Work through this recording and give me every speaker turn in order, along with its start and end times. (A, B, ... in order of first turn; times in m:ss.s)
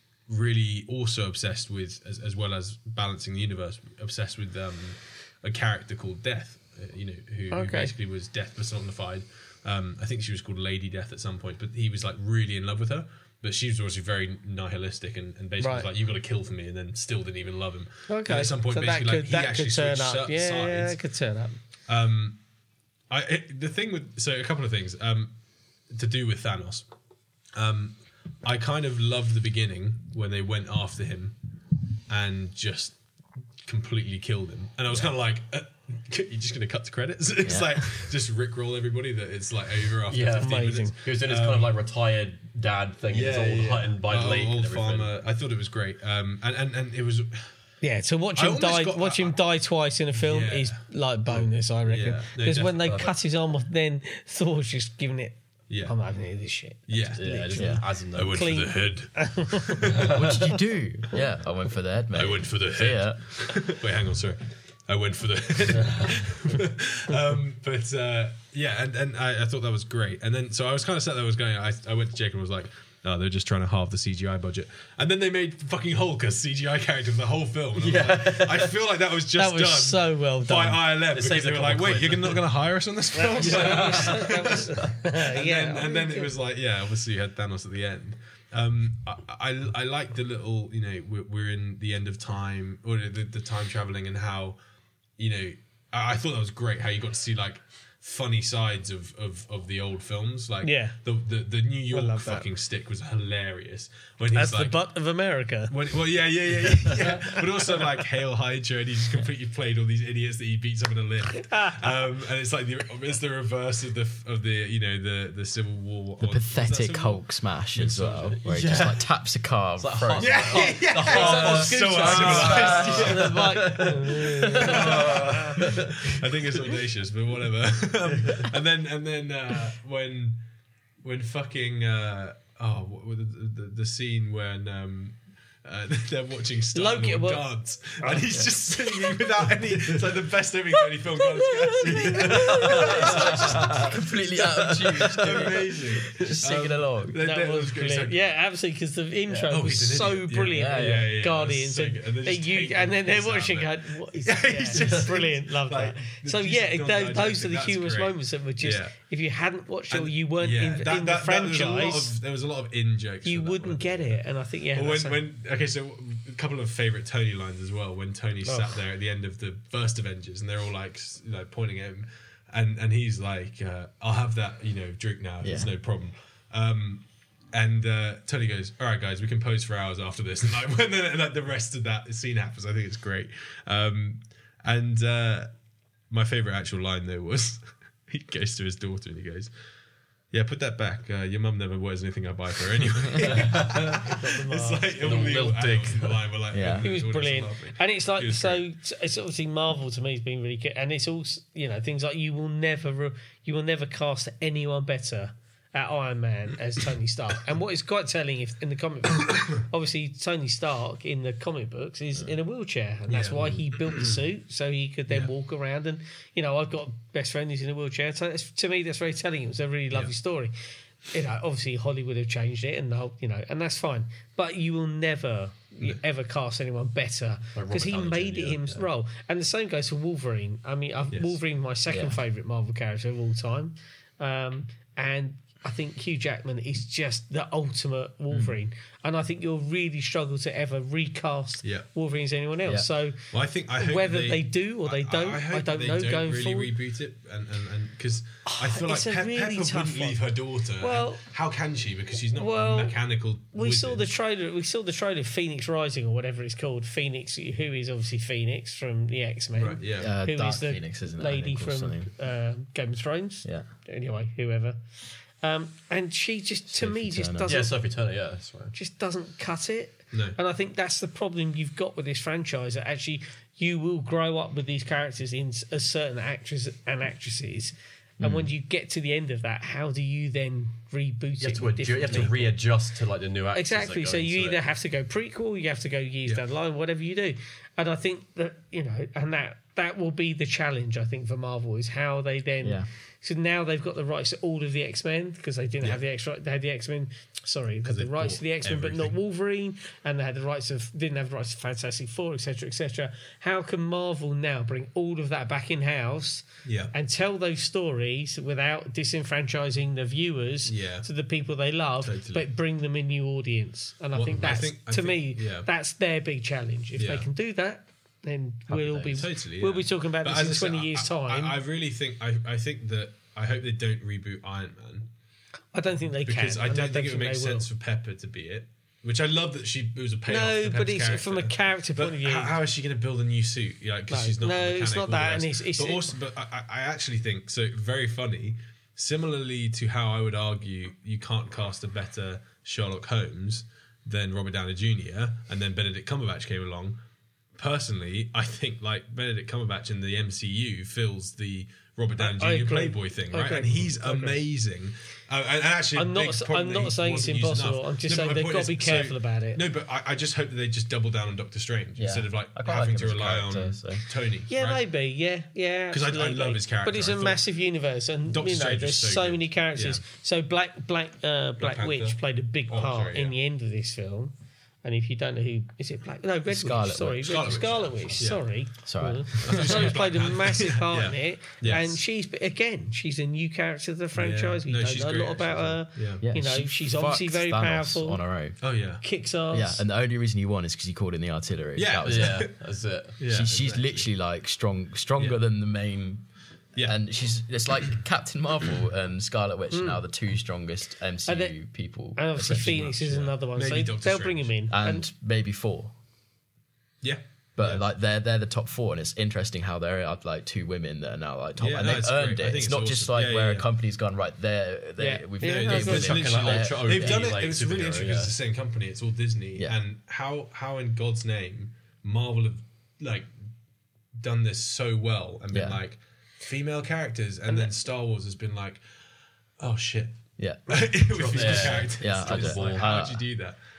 0:00.3-0:21.0 A
0:07.5-0:07.9 B
0:15.6-0:15.9 B
0:18.1-0:21.6 B
0:21.9-0:22.4 A
0:23.1-0:25.4 A
0:25.9-0:26.9 A
0:27.5-0:31.4 A
0:32.1-0:33.0 A
0:33.6-0:41.7 A
0:37.4-0:37.8 C
0:40.1-0:45.1 D
0:40.3-0:41.0 B
0:43.1-0:47.5 A
0:47.8-1:00.6 B
0:48.4-0:49.4 A
0:50.2-0:50.8 A
0:51.8-0:53.1 A
0:55.7-0:55.9 A
0:56.9-0:57.2 A
0:57.2-0:58.4 D
0:57.5-0:57.8 C
0:58.1-1:00.2 A
1:00.0-1:00.2 D
1:00.0-1:03.2 C
1:02.1-1:34.6 A
1:05.8-1:06.1 D
1:17.8-1:18.8 D
1:19.3-1:20.9 B
1:21.1-1:22.4 D
1:23.1-1:26.3 B
1:23.3-1:24.9 D
1:35.2-1:44.8 A
1:40.6-1:41.0 B
1:41.9-1:42.5 B
1:44.3-1:45.7 B
1:45.7-1:57.2 A
1:47.2-1:47.8 B
1:51.4-1:52.0 B
1:56.2-2:03.4 C
1:57.7-1:58.4 A
1:58.4-1:59.1 D
1:59.8-2:06.6 D
2:00.2-2:03.4 A
2:00.5-2:05.6 B
2:04.6-2:04.9 C
2:04.6-2:10.4 A
2:08.1-2:08.5 D
2:11.0-2:23.9 A
2:16.7-2:17.4 B
2:21.6-2:23.7 B
2:22.0-2:23.9 D
2:22.4-2:27.2 C
2:24.6-2:28.2 A
2:24.9-2:25.4 D
2:27.2-2:42.1 B
2:29.4-2:38.9 A
2:30.5-2:31.1 C
2:34.7-2:35.0 D
2:39.9-2:44.2 A
2:43.2-2:45.2 B
2:44.7-3:05.5 A
2:48.4-2:48.8 B
2:55.4-2:55.7 C
3:06.1-3:09.5 A
3:10.3-3:18.6 A
3:13.3-3:14.0 D
3:14.0-3:15.4 B
3:15.0-3:16.2 D
3:16.5-3:16.9 C
3:16.8-3:40.5 B
3:33.1-3:34.2 A
3:41.1-4:03.2 B
3:47.5-3:48.9 D
3:51.1-3:51.4 A
3:51.9-3:52.2 C
4:03.3-4:14.0 A
4:03.8-4:06.7 B
4:08.4-4:11.2 B
4:12.3-4:13.0 B
4:13.5-4:24.8 B
4:19.6-4:20.1 A
4:20.0-4:22.1 C
4:25.4-4:27.7 B
4:26.7-4:27.6 C
4:27.5-4:28.7 D
4:28.7-4:42.5 B
4:30.1-4:30.4 A
4:41.4-4:44.6 D
4:43.5-5:21.6 B
4:52.6-4:52.9 C
4:57.8-4:59.2 A
5:06.6-5:06.9 A
5:10.6-5:11.1 A
5:12.0-5:12.4 A
5:14.1-5:15.7 A
5:17.0-5:17.3 A
5:18.7-5:19.2 C
5:19.1-5:25.1 A
5:25.7-5:27.6 B
5:26.2-5:47.0 A
5:30.3-5:32.6 B
5:34.1-5:36.1 B
5:47.6-6:04.8 A
5:52.2-5:54.4 B
5:55.9-5:59.6 B
6:02.0-6:04.0 C
6:04.5-6:28.2 B
6:05.9-6:07.4 A
6:08.3-6:10.0 A
6:11.6-6:13.4 A
6:16.5-6:18.2 C
6:17.2-6:18.4 A
6:18.8-6:20.0 C
6:19.4-6:22.0 A
6:24.1-6:26.2 A
6:26.2-6:28.6 C
6:28.6-6:29.0 A
6:29.0-6:29.8 B
6:29.5-6:32.5 C
6:31.8-6:32.5 A
6:32.0-6:33.2 D
6:33.2-6:34.1 A
6:33.3-6:43.3 C
6:39.7-6:40.0 B
6:41.2-6:41.6 B
6:42.2-6:45.1 B
6:42.5-6:44.5 A
6:44.7-6:45.9 C
6:47.0-6:47.9 A
6:47.6-6:57.4 C
6:51.6-6:53.7 A
6:55.0-6:56.1 B
6:55.4-7:03.3 A
6:55.7-6:58.3 D
7:04.2-7:08.8 A
7:05.5-7:05.8 C
7:07.5-7:07.7 B
7:09.6-7:13.6 A
7:10.4-7:13.3 C
7:11.2-7:13.0 D